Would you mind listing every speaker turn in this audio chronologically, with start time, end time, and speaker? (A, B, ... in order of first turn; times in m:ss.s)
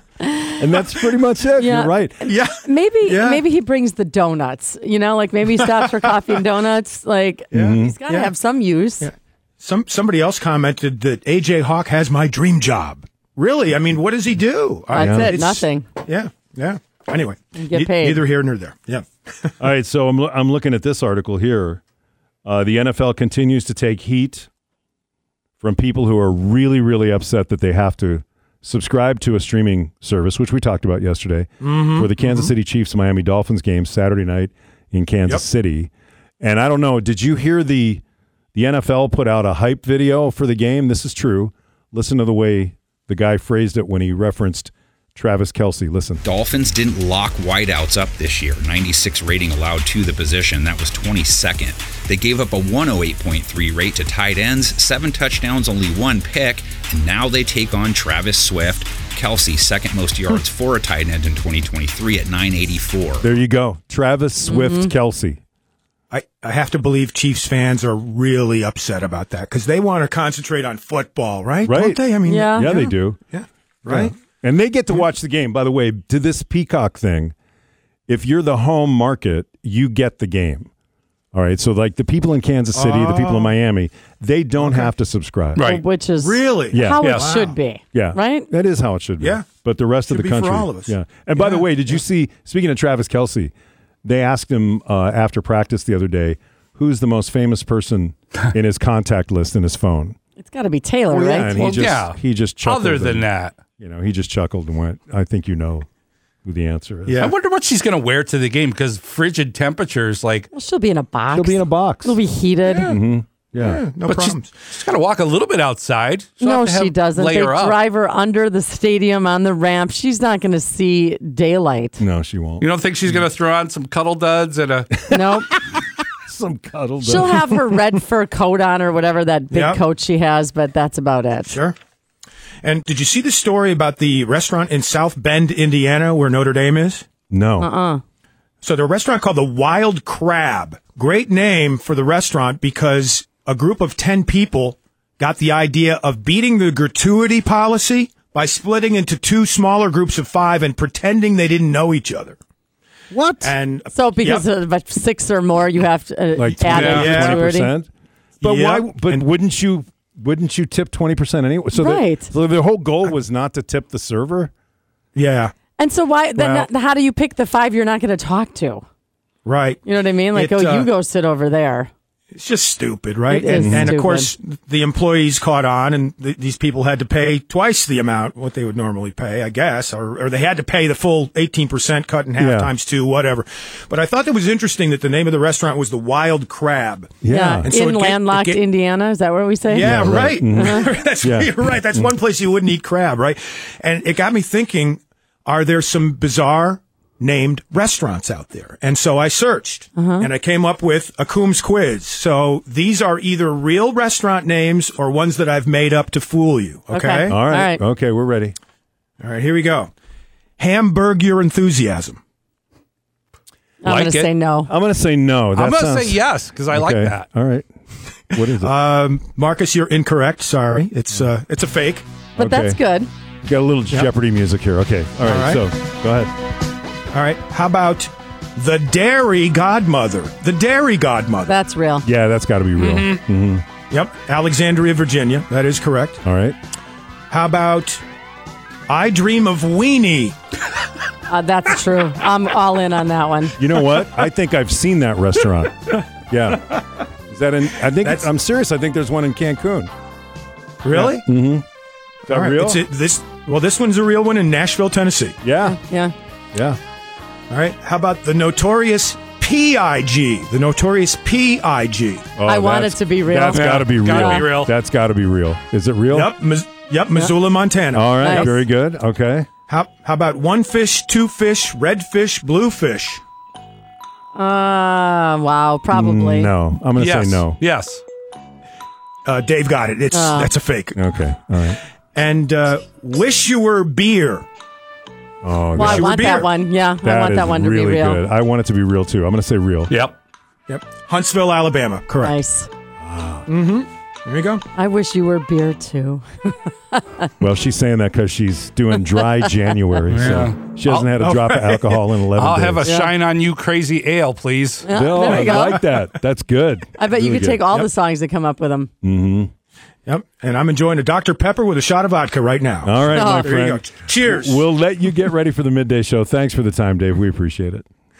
0:00.2-0:00.5 A
0:00.6-0:02.2 B
0:01.6-0:09.1 A
0:02.2-0:03.4 C
0:07.5-0:08.0 B
0:07.5-0:08.3 C
0:09.0-0:19.5 C
0:14.9-0:15.8 A
0:15.0-0:15.4 B
0:17.6-0:18.2 A
0:19.6-0:21.8 B
0:22.4-0:24.5 B
0:25.6-0:38.0 B
0:31.6-0:32.5 C
0:38.6-0:46.2 B
0:46.2-1:03.3 D
1:03.2-1:05.4 B
1:04.4-1:04.9 A
1:06.1-1:14.1 C
1:11.6-1:13.2 B
1:12.2-1:12.7 A
1:13.8-1:17.3 B
1:18.1-1:20.7 B
1:21.3-1:25.7 B
1:22.7-1:23.5 C
1:24.6-1:24.9 C
1:25.6-1:25.8 E
1:25.6-1:28.5 A
1:26.2-1:27.6 C
1:26.7-1:27.2 B
1:27.0-1:27.3 E
1:27.9-1:33.5 B
1:29.2-1:29.5 C
1:30.1-1:31.7 C
1:34.0-1:40.2 B
1:40.4-1:41.8 A
1:41.1-1:45.9 B
1:41.5-1:43.6 E
1:46.4-1:47.3 B
1:47.1-1:47.4 C
1:47.2-1:50.5 E
1:50.5-1:53.0 A
1:51.3-1:52.2 B
1:52.8-1:53.8 B
1:53.6-1:54.6 C
1:54.0-1:57.8 E
1:56.4-2:02.0 A
2:02.0-2:03.2 B
2:02.6-2:04.9 E
2:05.0-2:05.4 B
2:05.1-2:05.5 A
2:06.2-2:07.8 B
2:07.0-2:11.6 A
2:09.5-2:09.8 C
2:12.6-2:17.0 C
2:17.3-2:17.7 B
2:17.6-2:18.0 A
2:18.6-2:32.4 C
2:33.1-2:33.5 B
2:33.4-2:34.5 C
2:33.9-2:37.8 A
2:36.4-2:37.9 B
2:36.7-2:37.1 E
2:36.9-2:37.4 C
2:38.4-2:44.5 B
2:38.4-2:39.3 C
2:41.7-2:42.3 A
2:45.2-2:45.5 C
2:45.8-2:48.8 A
2:46.4-2:46.7 C
2:49.4-2:50.9 C
2:49.8-2:51.9 A
2:52.3-3:08.6 C
2:53.3-2:54.3 A
2:53.6-2:53.9 B
3:02.4-3:02.7 B
3:07.2-3:07.7 B
3:07.3-3:10.9 A
3:09.7-3:27.4 C
3:09.8-3:12.1 B
3:20.0-3:20.3 A
3:26.9-3:27.8 A
3:27.3-3:28.6 B
3:29.2-3:29.9 C
3:30.6-3:32.2 C
3:33.8-3:34.7 A
3:33.8-3:34.3 E
3:34.6-3:37.7 B
3:35.6-3:37.2 E
3:38.3-3:38.7 B
3:38.6-3:42.1 C
3:42.4-3:42.8 B
3:42.4-3:43.1 A
3:43.4-3:46.4 B
3:45.2-3:45.6 C
3:47.1-3:51.5 C
3:51.4-3:52.1 A
3:52.0-3:53.6 B
3:52.8-3:53.1 E
3:53.9-3:56.2 C
3:56.2-3:56.6 B
3:57.3-3:58.0 C
3:58.9-4:00.4 C
4:01.3-4:03.6 A
4:03.6-4:09.9 B
4:10.8-4:11.2 C
4:10.9-4:11.6 B
4:12.3-4:12.8 B
4:12.3-4:15.4 C
4:15.4-4:15.8 B
4:15.6-4:16.1 A
4:16.5-4:16.8 B
4:17.5-4:22.3 C
4:22.4-4:26.3 B
4:22.4-4:24.5 A
4:23.5-4:24.7 E
4:26.1-4:28.3 C
4:27.9-4:29.5 B
4:28.2-4:28.6 A
4:29.7-4:33.2 C
4:34.4-4:36.5 A
4:35.9-4:37.6 B
4:37.0-4:38.0 E
4:39.2-4:41.0 C
4:40.1-4:40.5 A
4:41.0-4:41.8 B
4:42.2-4:44.5 C
4:45.4-4:46.2 B
4:45.8-4:48.2 A
4:45.8-4:46.5 C
4:47.0-4:49.9 B
4:49.9-4:50.2 E
4:50.7-4:52.4 C
4:52.2-4:52.7 A
4:53.0-4:53.5 B
4:53.5-4:54.6 C
4:54.7-4:57.3 A
4:57.4-5:03.0 B
5:00.1-5:01.1 E
5:01.1-5:02.0 C
5:02.4-5:04.9 E
5:02.8-5:03.1 A
5:04.8-5:06.0 A
5:04.9-5:07.7 B
5:07.0-5:08.9 A
5:09.0-5:09.5 B
5:10.1-5:14.7 C
5:12.8-5:17.8 B
5:13.1-5:13.6 A